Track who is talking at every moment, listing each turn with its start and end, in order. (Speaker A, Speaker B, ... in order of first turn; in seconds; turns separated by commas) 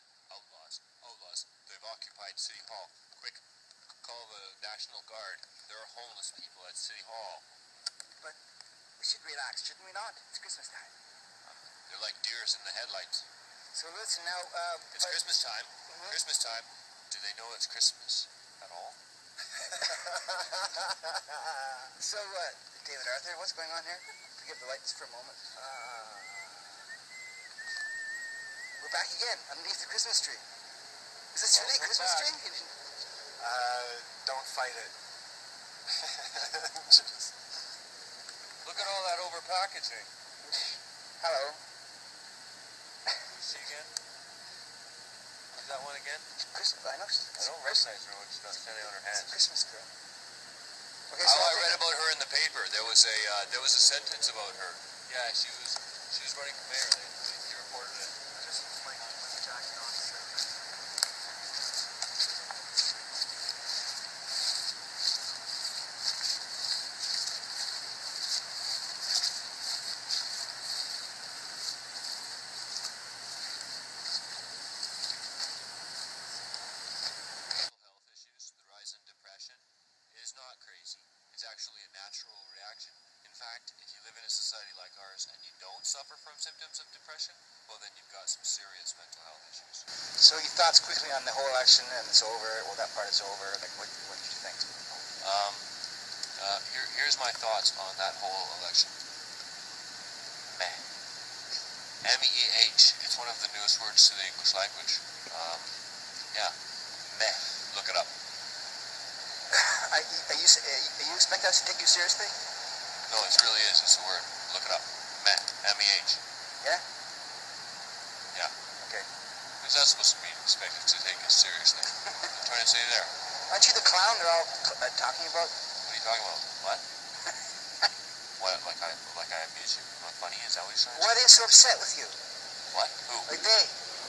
Speaker A: 0.3-3.4, Speaker A: 4.0-7.5, Speaker B: 9.0-10.9, Speaker A: 11.5-13.3, Speaker B: 13.7-15.2, Speaker A: 14.9-19.0, Speaker B: 15.9-16.2, Speaker B: 19.7-20.7, Speaker B: 22.0-25.6, Speaker C: 25.6-26.8, Speaker B: 28.8-30.4, Speaker B: 31.3-32.8, Speaker A: 31.5-32.3, Speaker C: 33.4-35.0, Speaker C: 35.9-37.4, Speaker A: 38.6-40.1, Speaker B: 40.5-41.6, Speaker A: 43.2-43.9, Speaker A: 45.5-46.3, Speaker B: 46.5-47.9, Speaker A: 47.4-49.4, Speaker B: 49.1-49.9, Speaker B: 51.1-51.9, Speaker A: 51.2-58.2, Speaker C: 58.3-60.6, Speaker A: 77.5-89.8, Speaker B: 90.2-95.0, Speaker A: 95.2-95.7, Speaker A: 96.4-99.0, Speaker A: 100.6-100.8, Speaker A: 102.0-105.8, Speaker A: 107.1-108.1, Speaker B: 109.5-112.3, Speaker A: 113.1-116.2, Speaker A: 119.6-123.1, Speaker B: 123.5-125.5, Speaker A: 125.8-126.8, Speaker A: 128.4-131.3, Speaker B: 130.9-132.2, Speaker A: 132.7-133.3, Speaker B: 133.2-133.7